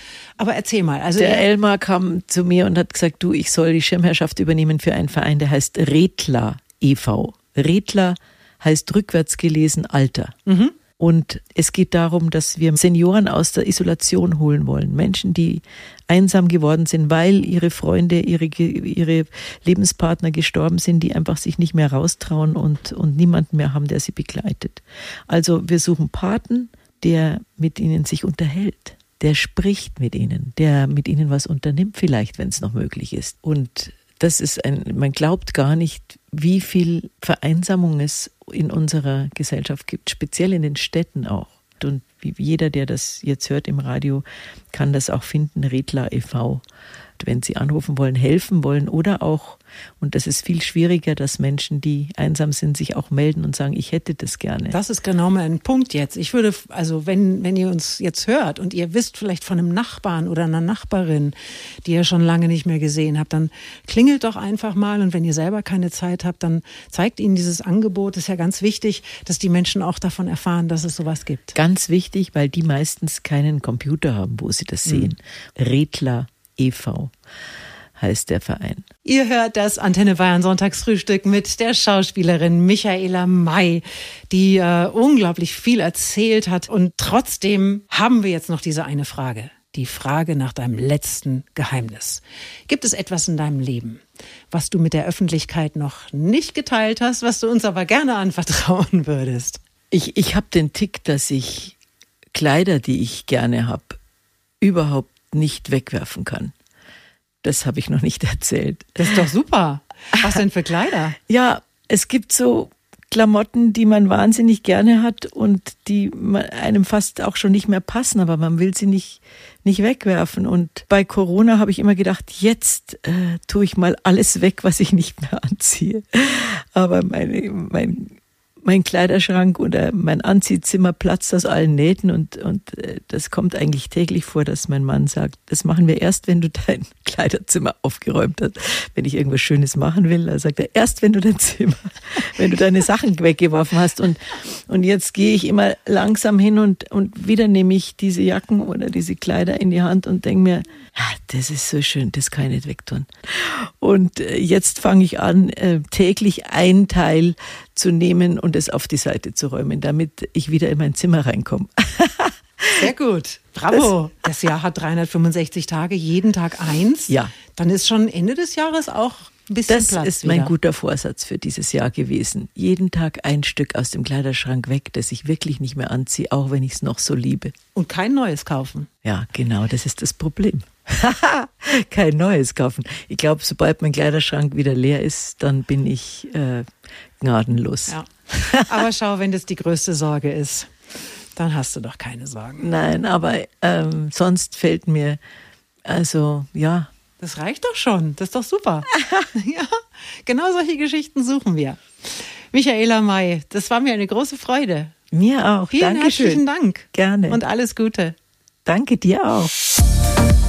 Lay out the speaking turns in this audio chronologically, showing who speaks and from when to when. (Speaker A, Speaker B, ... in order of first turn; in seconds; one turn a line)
Speaker A: 0.4-1.4
Speaker B: 1.2-10.4
Speaker A: 10.4-10.8
Speaker B: 11.0-46.6
Speaker B: 47.2-54.8
Speaker A: 54.7-71.6
Speaker B: 71.5-77.1
Speaker B: 78.0-78.9
Speaker A: 79.0-99.6
Speaker B: 99.9-101.8
Speaker B: 102.3-104.0
Speaker B: 104.6-106.5
Speaker B: 107.4-109.2
Speaker A: 109.0-111.2
Speaker B: 111.3-162.8
Speaker A: 162.7-170.5
Speaker B: 167.1-167.3
Speaker B: 169.7-177.6
Speaker A: 177.8-178.9
Speaker B: 179.0-188.8
Speaker A: 187.9-190.7
Speaker A: 191.3-192.6
Speaker B: 192.6-195.2
Speaker B: 195.8-196.9
Speaker A: 197.2-204.9
Speaker B: 205.1-207.4
Speaker A: 205.7-208.2
Speaker B: 208.7-209.6